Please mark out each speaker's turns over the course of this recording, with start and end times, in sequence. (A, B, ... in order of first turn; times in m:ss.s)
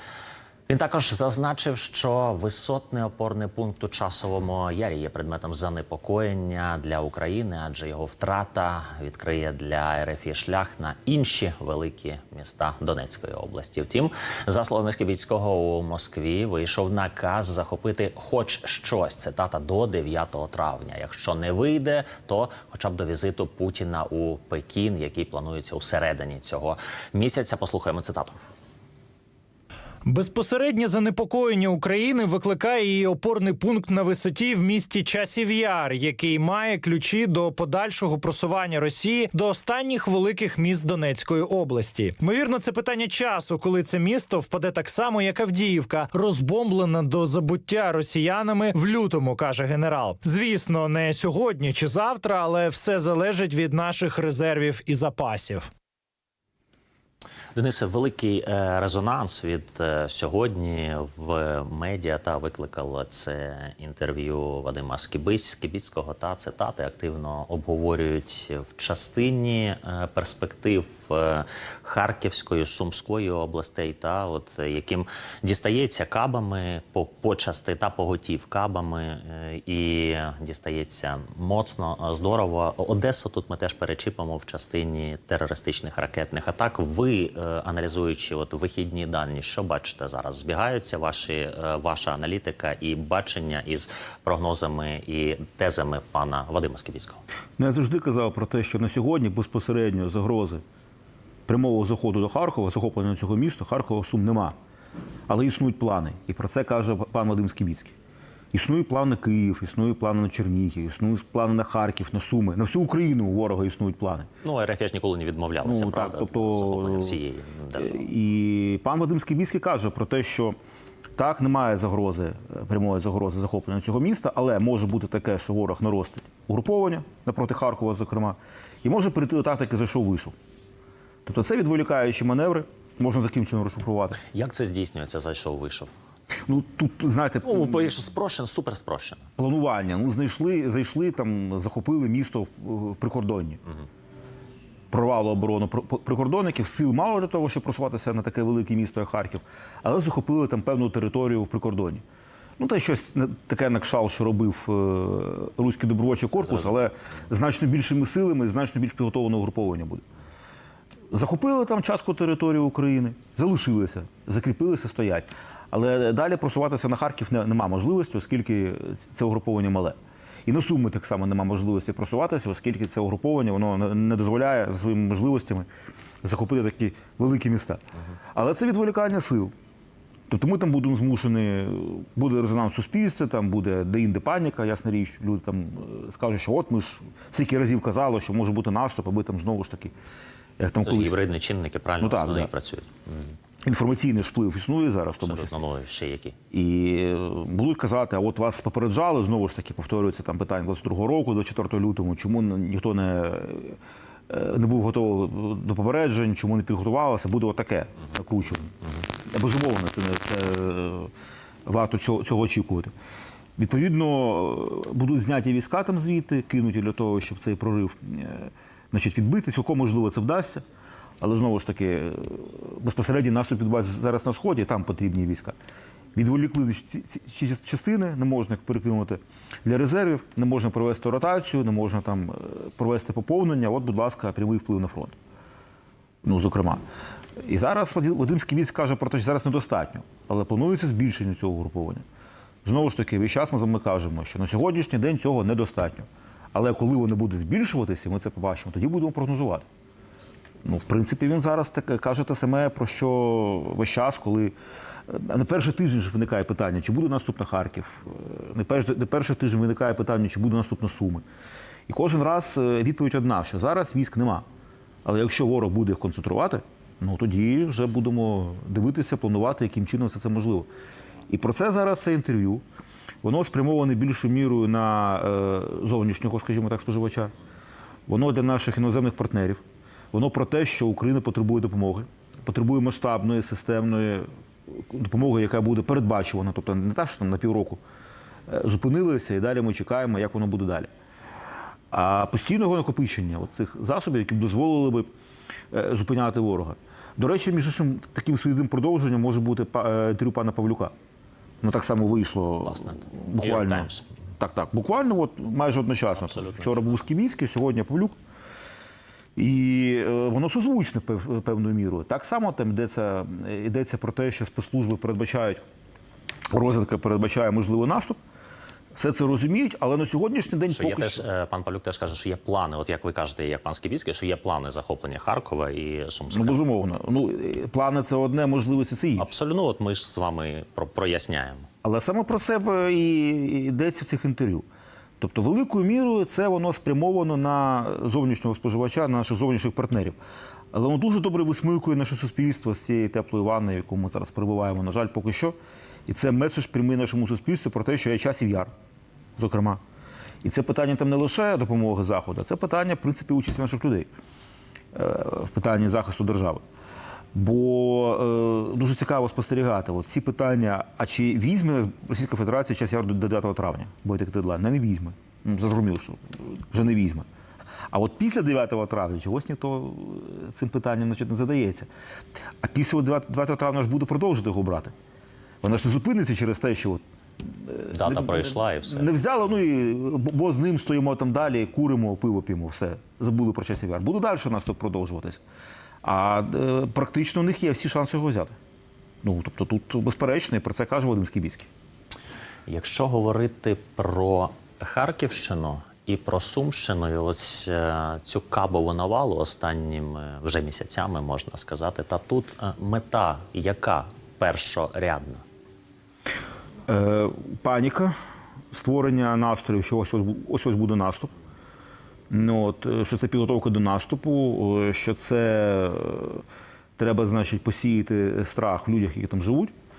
0:00.7-0:28.4 A
0:30.0-0:55.7 B
0:57.5-1:37.2 A
1:37.6-1:40.6 C
1:41.5-1:44.5 C
1:45.3-1:47.9 C
1:48.5-1:54.3 C
1:54.4-1:58.1 A
1:55.6-1:57.2 C
1:57.8-2:00.5 C
2:01.2-2:10.3 C
2:11.2-2:14.2 C
2:14.3-2:15.9 A
2:16.5-2:17.9 C
2:17.4-2:19.2 A
2:19.4-2:23.6 C
2:24.9-2:32.0 C
2:32.6-2:40.0 C
2:41.1-2:55.7 C
2:56.2-2:57.8 C
2:58.3-2:59.5 C
3:00.3-3:09.9 C
3:10.6-3:11.2 C
3:10.8-3:13.4 A
3:12.0-3:12.5 C
3:13.6-3:15.6 C
3:15.2-3:16.4 A
3:16.5-3:23.8 C
3:24.3-3:28.7 C
3:29.2-3:31.1 C
3:31.6-3:32.9 C
3:33.6-3:40.6 C
3:41.2-3:45.6 C
3:46.1-3:55.1 C
3:56.2-3:56.8 C
3:57.4-4:02.0 C
4:02.6-4:09.6 C
4:10.6-4:14.5 C
4:15.1-4:21.2 C
4:21.9-4:24.4 C
4:25.0-4:30.7 C
4:31.3-4:32.6 C
4:33.2-4:37.3 C
4:38.1-4:39.6 C
4:40.1-4:47.8 C
4:48.5-4:50.9 C
4:51.9-4:55.1 C
4:55.7-5:00.9 C
5:01.6-5:08.1 C
5:02.7-5:04.1 A
5:09.4-5:15.6 C
5:16.5-5:18.2 C
5:18.9-5:21.2 C
5:20.7-5:26.6 A
5:26.3-5:29.3 C
5:29.2-5:31.7 A
5:31.8-5:34.6 C
5:35.2-5:40.2 C
5:40.7-5:45.5 C
5:46.1-5:48.7 C
5:49.4-5:49.8 C
5:50.4-5:54.1 C
5:54.9-5:56.6 C
5:57.3-6:07.2 C
6:07.9-6:11.9 C
6:12.6-6:14.9 C
6:15.6-6:25.4 C
6:17.9-6:19.1 A
6:26.0-6:28.5 C
6:29.2-6:31.7 C
6:32.7-6:45.4 A
6:46.9-6:48.1 C
6:48.7-6:51.3 C
6:52.3-6:56.4 C
6:57.0-6:59.7 C